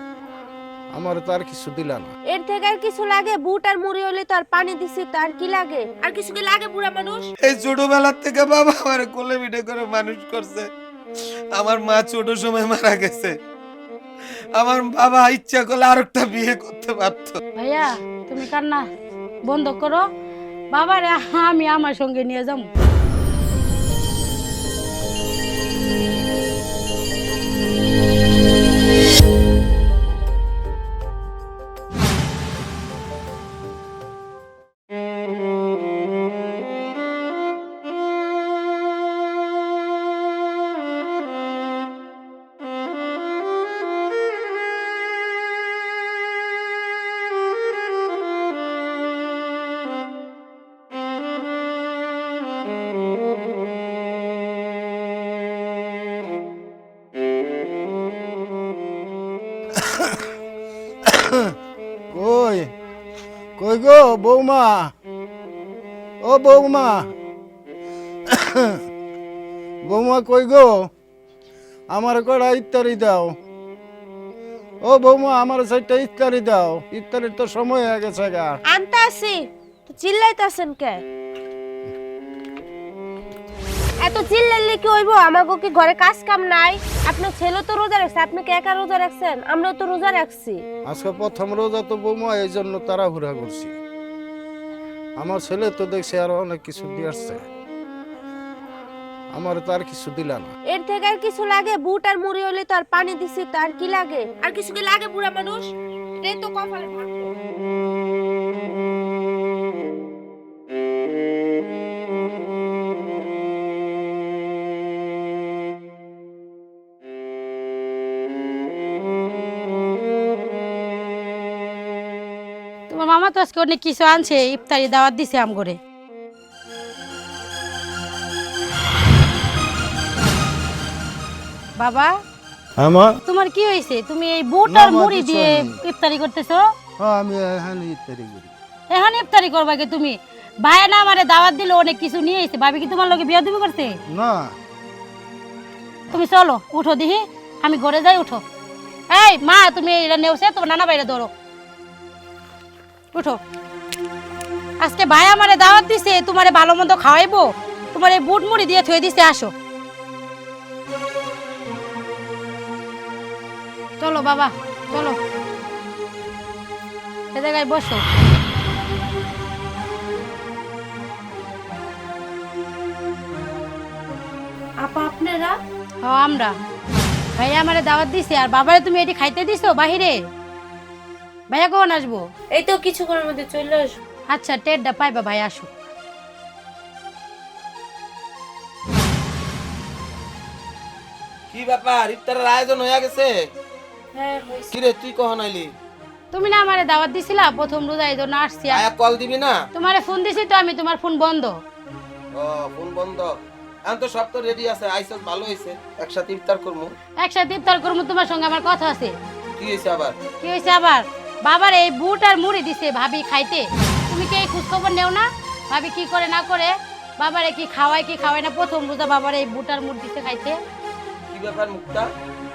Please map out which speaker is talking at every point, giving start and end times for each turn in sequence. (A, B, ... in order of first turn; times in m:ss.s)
0:00.9-0:02.1 A
0:02.3-0:07.3 B
0:07.4-0:10.7 C
0:11.5-0:13.3 C
0:14.6-0:17.4 C
0:17.6-0:18.8 D
0:19.4-0:20.0 D
0:20.7-0:22.7 D
0:59.8-1:00.2 A
1:01.1-1:01.5 A
1:02.1-1:02.7 A
1:03.6-1:04.9 A
1:06.2-1:07.1 A
1:08.3-1:08.8 A
1:09.9-1:10.9 A
1:11.9-1:13.4 A
1:14.8-1:18.6 A
1:18.7-1:21.0 B
1:24.0-1:30.6 B
1:30.8-1:33.8 A
1:35.2-1:37.5 A
1:39.3-1:40.5 A
1:40.7-1:47.3 B
2:02.9-2:05.8 D
2:11.8-2:12.1 D
2:12.8-2:13.2 A
2:13.2-2:16.7 D
2:14.6-2:15.8 A
2:17.0-2:18.5 A
2:18.9-2:24.0 D
2:24.1-2:24.6 A
2:26.1-2:28.4 D
2:29.1-2:31.3 D
2:33.1-2:33.4 D
2:34.8-2:39.5 D
2:44.0-2:45.2 D
2:47.3-2:48.0 D
2:54.8-2:55.6 B
2:56.0-2:56.5 D
2:57.4-3:00.2 D
3:01.5-3:02.2 D
3:02.5-3:04.0 B
3:04.3-3:05.7 D
3:11.5-3:13.4 C
3:14.1-3:14.7 B
3:14.7-3:15.7 C
3:16.3-3:18.8 D
3:18.7-3:19.6 C
3:19.7-3:21.6 D
3:22.3-3:23.3 C
3:23.8-3:26.9 C
3:27.2-3:29.2 D
3:29.6-3:30.1 C
3:30.4-3:40.6 D
3:41.3-3:42.1 C